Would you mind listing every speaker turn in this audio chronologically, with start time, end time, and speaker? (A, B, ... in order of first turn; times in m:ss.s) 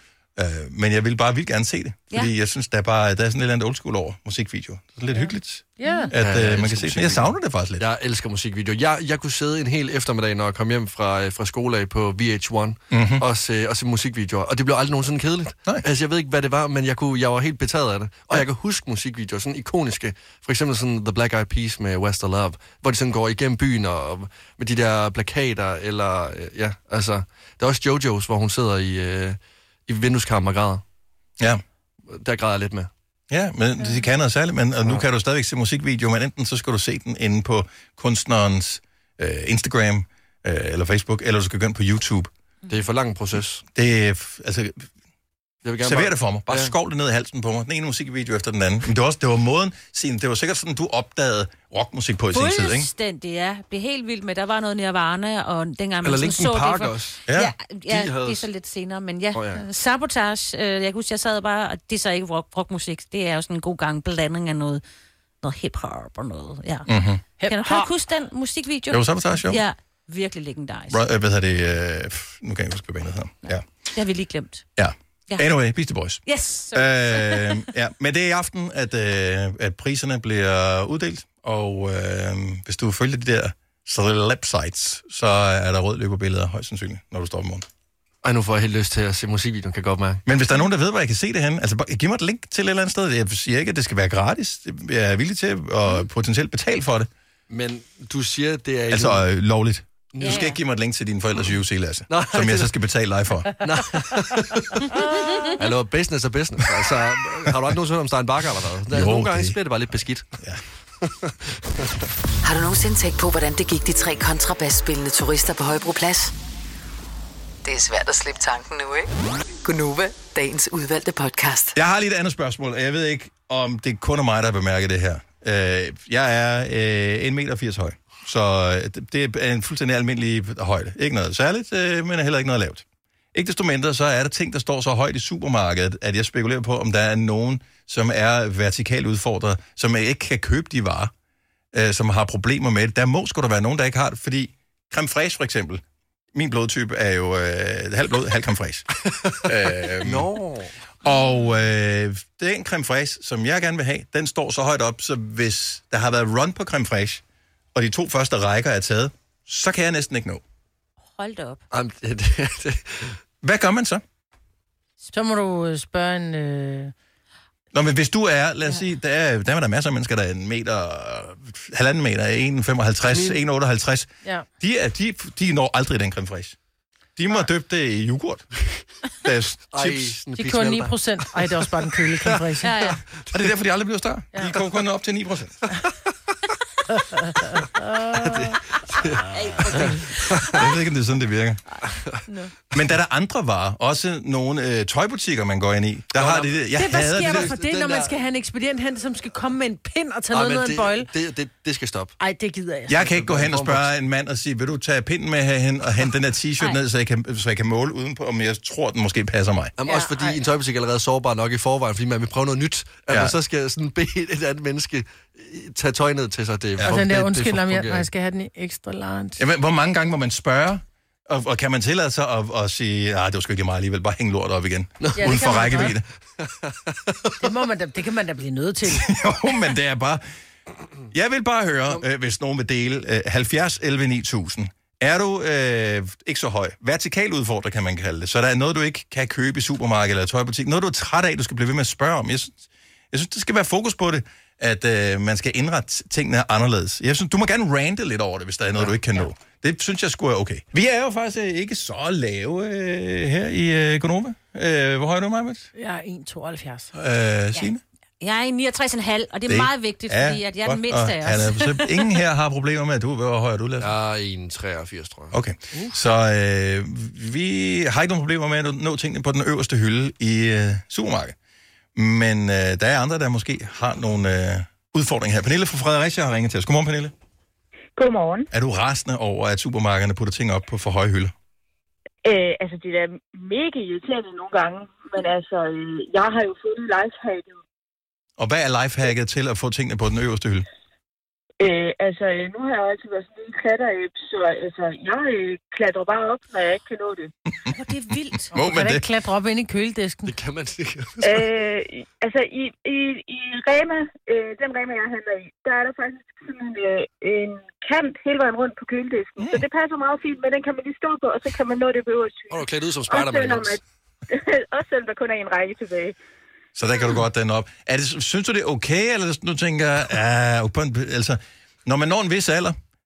0:00.4-0:07.9 A
0:05.8-0:06.1 B
0:06.2-0:30.8 C
0:12.9-0:13.2 A
0:32.1-0:32.9 C
0:33.3-0:42.3 A
0:42.7-0:43.6 C
0:43.7-0:44.9 A
0:45.6-0:46.7 C
0:45.8-0:52.9 A
0:52.3-1:04.8 D
0:56.0-0:57.2 C
0:57.3-0:57.5 A
0:57.9-0:58.4 C
0:59.4-0:59.6 C
1:05.4-1:06.9 D
1:06.9-1:07.2 A
1:07.4-1:07.9 B
1:07.4-1:11.0 D
1:08.9-1:09.6 A
1:10.9-1:13.6 A
1:13.5-1:14.7 D
1:14.8-1:27.7 A
1:16.3-1:17.6 D
1:28.2-1:30.2 C
1:30.3-1:37.1 A
1:37.5-1:39.2 C
1:38.9-1:43.6 A
1:40.1-1:40.5 C
1:40.2-1:40.6 D
1:42.1-1:42.7 C
1:43.6-1:45.0 C
1:44.9-1:45.5 B
1:45.6-1:50.3 C
1:48.9-1:49.6 A
1:51.0-1:51.9 C
1:52.4-1:56.3 E
1:57.6-1:59.1 E
1:59.6-2:01.8 E
2:01.8-2:21.1 A
2:21.7-2:25.8 A
2:26.3-2:28.9 A
2:29.4-2:30.3 A
2:30.0-2:30.7 C
2:31.0-2:37.2 A
2:37.8-2:40.4 A
2:41.2-2:41.6 D
2:41.7-2:43.2 C
2:43.4-2:44.0 A
2:45.1-2:46.9 B
2:47.7-2:54.1 A
2:53.1-2:53.4 C
2:54.6-2:56.6 A
2:57.2-2:58.6 A
2:59.2-3:00.2 A
2:59.7-3:02.4 C
3:00.4-3:03.0 B
3:02.6-3:03.0 D
3:03.3-3:05.6 A
3:07.1-3:08.5 B
3:08.1-3:10.7 C
3:09.3-3:10.6 D
3:10.5-3:11.6 A
3:12.7-3:17.5 A
3:16.2-3:18.1 C
3:16.7-3:21.1 B
3:20.3-3:22.1 C
3:22.2-3:23.0 B
3:22.9-3:29.8 A
3:23.0-3:23.9 C
3:29.8-3:38.1 C
3:29.9-3:30.4 B
3:33.1-3:33.4 A
3:36.8-3:39.4 B
3:39.4-3:46.0 A
3:45.0-3:47.4 C
3:45.2-3:46.0 B
3:47.4-3:49.1 B
3:48.9-3:50.2 A
3:51.1-4:15.7 A
4:15.8-4:16.9 B
4:16.9-4:17.8 A
4:18.2-4:22.1 D
4:19.5-4:23.9 A
4:23.8-4:25.4 C
4:25.3-4:31.4 A
4:32.0-4:37.1 A
4:38.0-4:38.5 F
4:38.5-4:41.3 A
4:42.2-4:47.6 F
4:48.4-4:50.7 A
4:51.6-4:57.3 F
4:57.7-4:58.5 D
4:58.5-4:59.1 A
4:58.5-5:00.3 B
5:00.3-5:01.4 C
5:01.2-5:16.2 F
5:12.5-5:13.8 C
5:16.8-5:22.8 A